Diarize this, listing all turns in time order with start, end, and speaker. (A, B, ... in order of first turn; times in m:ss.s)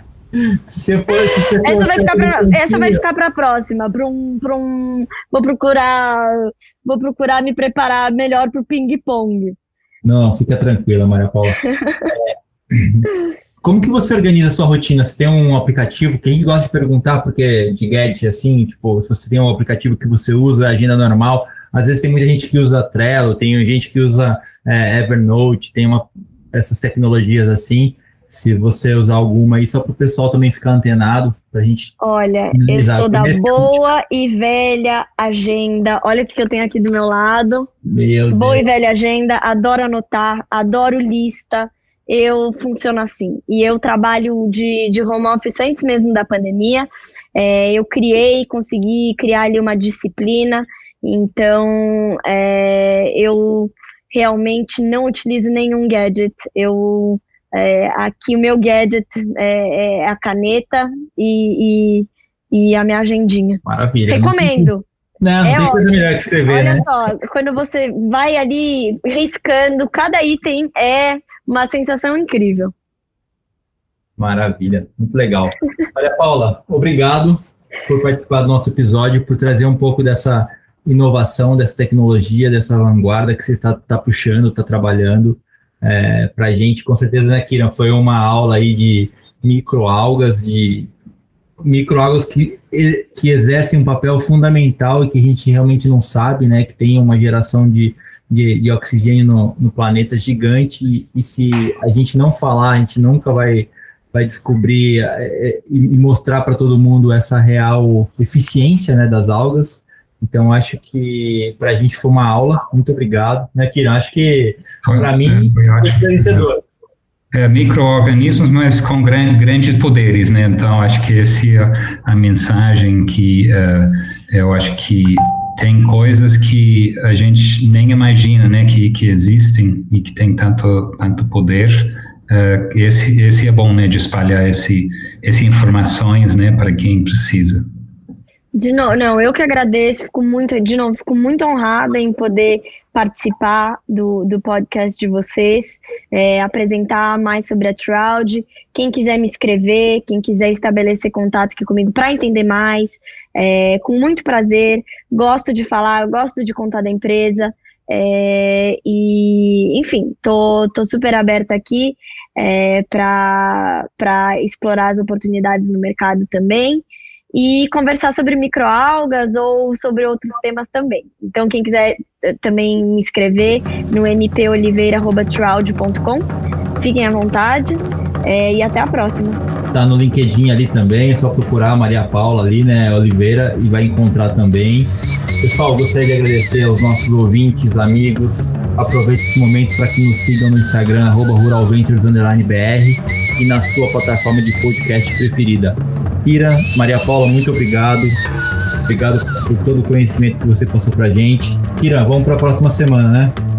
0:00.4-0:03.0 A
0:01.6-0:09.6 B
0:10.0-0:13.1 A
0:11.7-0:12.1 B
0:13.6-0:31.9 A
0:32.0-0:37.7 B
0:32.5-0:33.8 A
0:37.8-0:38.6 A
0:38.3-1:04.8 B
1:03.6-1:06.8 A
1:05.4-1:12.7 B
1:14.2-1:30.9 A
1:31.6-1:56.6 A
1:54.8-1:56.5 C
1:57.3-2:17.6 C
2:18.5-2:56.3 B
2:56.8-2:59.4 B
2:59.7-3:18.2 A
3:18.8-3:23.4 A